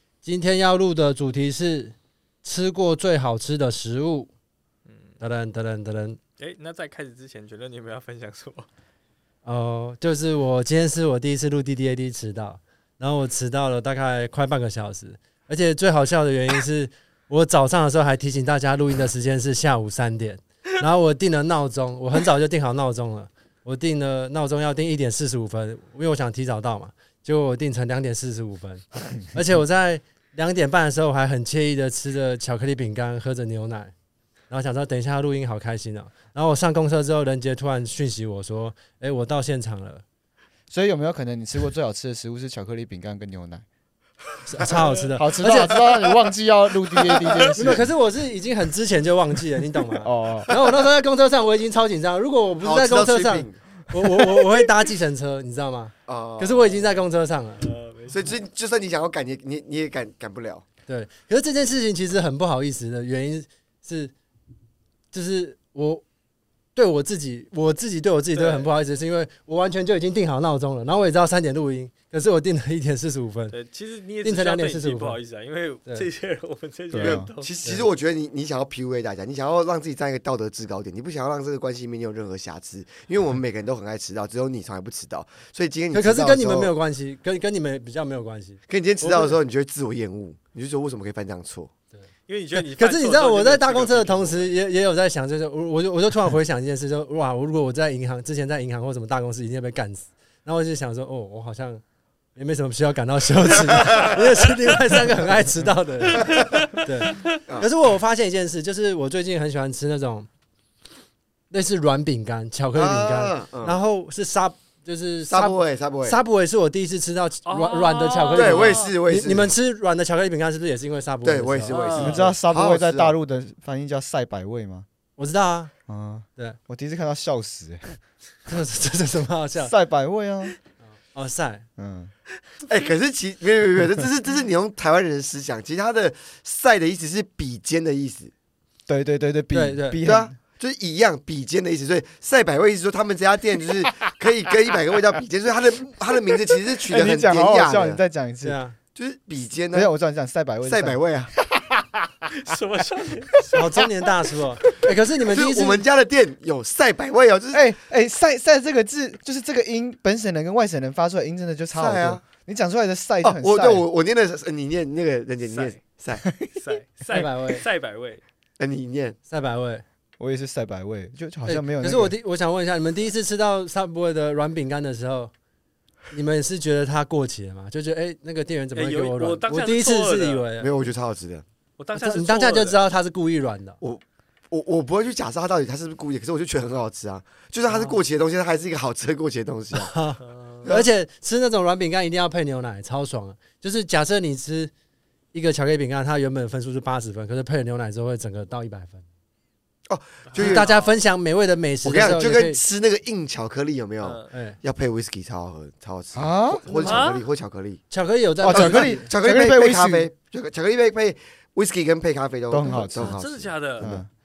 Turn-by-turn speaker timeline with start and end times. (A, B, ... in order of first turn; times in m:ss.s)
0:00.2-0:04.3 A
0:04.9-0:05.2 B
0:05.2-0:06.2 A
0:06.4-0:08.7 B
0:09.4-0:33.9 A
0:34.5-0:40.0 A
0:40.7-0:43.6 C
0:44.4-0:45.8 A
0:45.1-0:47.9 C
0:46.9-0:47.8 D
0:47.5-0:57.6 A
0:50.0-0:50.6 C
0:52.6-0:53.6 D
0:56.1-0:57.0 D
0:57.6-0:58.4 B
0:58.1-1:00.6 D
1:00.9-1:04.1 A
1:05.1-1:06.0 A
1:06.8-1:13.6 A
1:08.4-1:08.7 B
1:13.5-1:17.5 B
1:14.2-1:15.2 A
1:16.9-1:17.3 C
1:17.0-1:26.7 D
1:25.9-1:29.4 A
1:28.7-1:31.7 D
1:31.9-1:41.8 A
1:32.3-1:34.5 B
1:42.4-1:50.3 A
1:43.8-1:44.1 D
1:46.2-1:47.3 B
1:46.2-1:46.5 D
1:51.5-2:02.3 A
1:52.7-1:53.8 D
1:55.3-1:56.2 D
1:57.4-1:58.9 B
1:58.3-1:59.5 D
2:01.2-2:03.1 D
2:01.7-2:02.3 B
2:02.0-2:04.8 C
2:05.2-2:05.7 A
2:05.9-2:08.0 C
2:08.5-2:09.7 A
2:09.6-2:10.6 C
2:11.1-2:11.6 A
2:11.8-2:12.1 C
2:12.6-2:18.3 D
2:18.9-2:20.3 C
2:19.5-2:20.0 A
2:20.0-2:28.0 D
2:26.9-2:28.6 C
2:28.4-2:28.7 A
2:28.9-2:29.9 D
2:29.7-2:32.2 C
2:30.6-2:31.3 D
2:32.3-2:33.8 B
2:33.4-2:33.6 C
2:33.5-2:35.8 A
2:35.3-2:37.6 D
2:37.5-2:43.8 C
2:41.7-2:42.2 D
2:43.2-2:46.2 D
2:45.4-2:45.8 B
2:46.2-2:46.6 C
2:46.5-2:48.2 B
2:47.1-2:47.6 A
2:48.6-2:49.2 D
2:49.3-2:49.8 A
2:50.2-2:52.1 C
2:51.4-2:55.3 A
2:56.1-3:00.7 A
2:58.7-3:00.5 B
3:00.6-3:01.4 D
3:01.8-3:02.8 B
3:01.9-3:03.8 A
3:03.8-3:09.9 D
3:07.7-3:08.0 A
3:09.7-3:14.7 A
3:10.2-3:10.7 B
3:15.3-3:19.0 A
3:19.9-3:20.7 D
3:20.3-3:21.0 B
3:20.4-3:22.6 A
3:21.8-3:27.8 D
3:24.0-3:24.3 B
3:24.3-3:24.6 A
3:26.1-3:27.1 C
3:26.8-3:27.2 B
3:27.9-3:29.1 A
3:28.4-3:30.1 C
3:28.5-3:34.0 D
3:32.5-3:33.2 C
3:33.0-3:33.9 B
3:33.8-3:34.1 C